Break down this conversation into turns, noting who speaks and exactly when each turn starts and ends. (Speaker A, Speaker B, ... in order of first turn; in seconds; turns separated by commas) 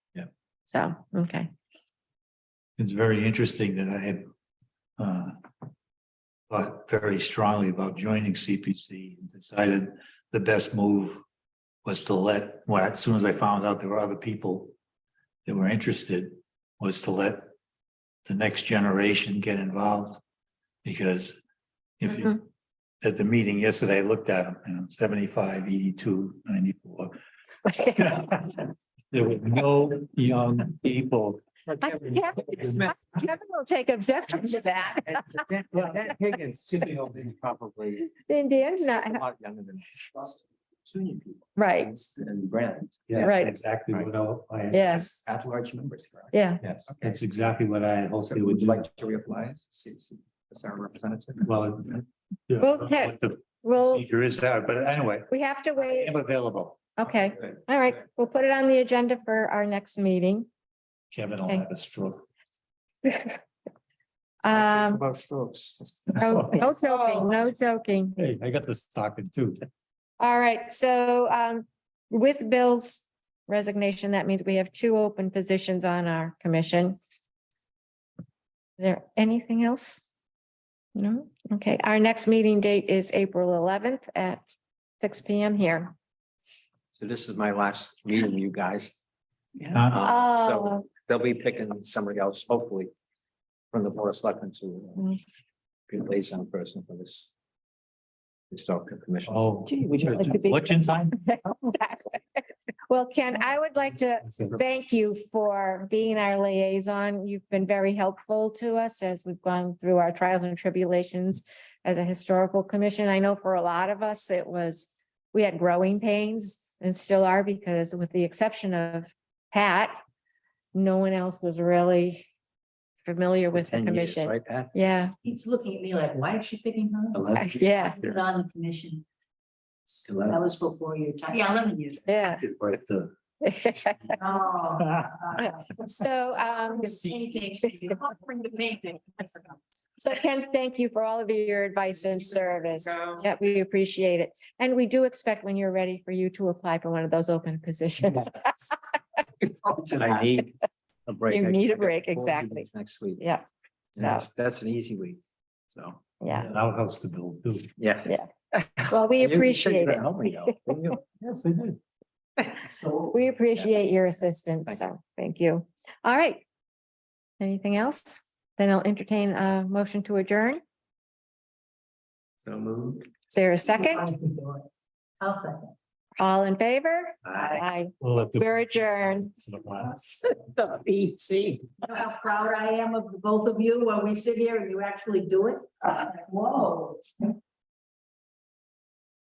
Speaker A: 0.7-1.5, Speaker B: 2.8-4.2, Speaker B: 5.0-5.4, Speaker B: 6.5-11.2, Speaker B: 11.8-14.7, Speaker B: 15.4-17.5, Speaker B: 18.2-20.2, Speaker B: 20.8-21.4, Speaker B: 22.0-22.4, Speaker B: 23.0-31.4, Speaker C: 31.7-33.0, Speaker A: 31.8-35.4, Speaker C: 35.0-38.1, Speaker A: 38.2-39.2, Speaker C: 38.9-44.1, Speaker A: 41.6-41.9, Speaker B: 43.1-45.0, Speaker A: 43.2-43.5, Speaker A: 44.7-45.1, Speaker C: 44.8-47.1, Speaker A: 46.3-46.6, Speaker B: 47.0-48.8, Speaker C: 48.2-51.5, Speaker B: 51.5-56.9, Speaker A: 52.6-54.0, Speaker A: 55.3-56.2, Speaker A: 57.0-60.5, Speaker B: 61.1-62.2, Speaker A: 63.0-63.3, Speaker A: 64.4-65.0, Speaker C: 64.8-66.0, Speaker B: 66.1-66.7, Speaker A: 66.2-68.2, Speaker B: 68.2-69.6, Speaker A: 70.2-77.0, Speaker A: 78.8-80.1, Speaker A: 80.9-84.4, Speaker A: 85.0-85.9, Speaker C: 87.0-89.0, Speaker B: 89.7-90.0, Speaker C: 89.8-92.9, Speaker A: 90.0-90.8, Speaker C: 93.7-95.2, Speaker C: 95.9-97.3, Speaker C: 98.5-99.5, Speaker B: 99.3-101.4, Speaker A: 101.2-102.2, Speaker A: 102.9-120.0, Speaker A: 120.7-122.2, Speaker A: 123.0-125.1, Speaker C: 123.5-124.7, Speaker D: 125.2-129.0, Speaker C: 127.1-127.6, Speaker A: 127.4-128.0, Speaker C: 130.0-130.4, Speaker D: 130.2-132.0, Speaker A: 132.1-132.4, Speaker B: 132.2-133.1, Speaker A: 133.4-134.2, Speaker D: 134.2-135.8, Speaker A: 135.4-137.1, Speaker D: 136.7-139.6, Speaker A: 140.0-148.8, Speaker C: 149.6-153.2, Speaker A: 151.3-153.4, Speaker C: 153.9-156.0, Speaker A: 154.0-154.2, Speaker A: 156.2-156.5, Speaker B: 156.3-157.7, Speaker C: 157.8-161.1, Speaker A: 158.9-160.1, Speaker B: 161.2-161.8, Speaker C: 162.6-163.7, Speaker A: 163.1-166.4, Speaker A: 167.4-170.6, Speaker C: 172.4-173.1, Speaker A: 173.3-174.1, Speaker D: 173.7-174.7, Speaker D: 175.2-175.7, Speaker A: 176.2-179.3, Speaker C: 177.2-177.6, Speaker D: 177.3-177.6, Speaker B: 178.0-180.0, Speaker D: 180.6-187.2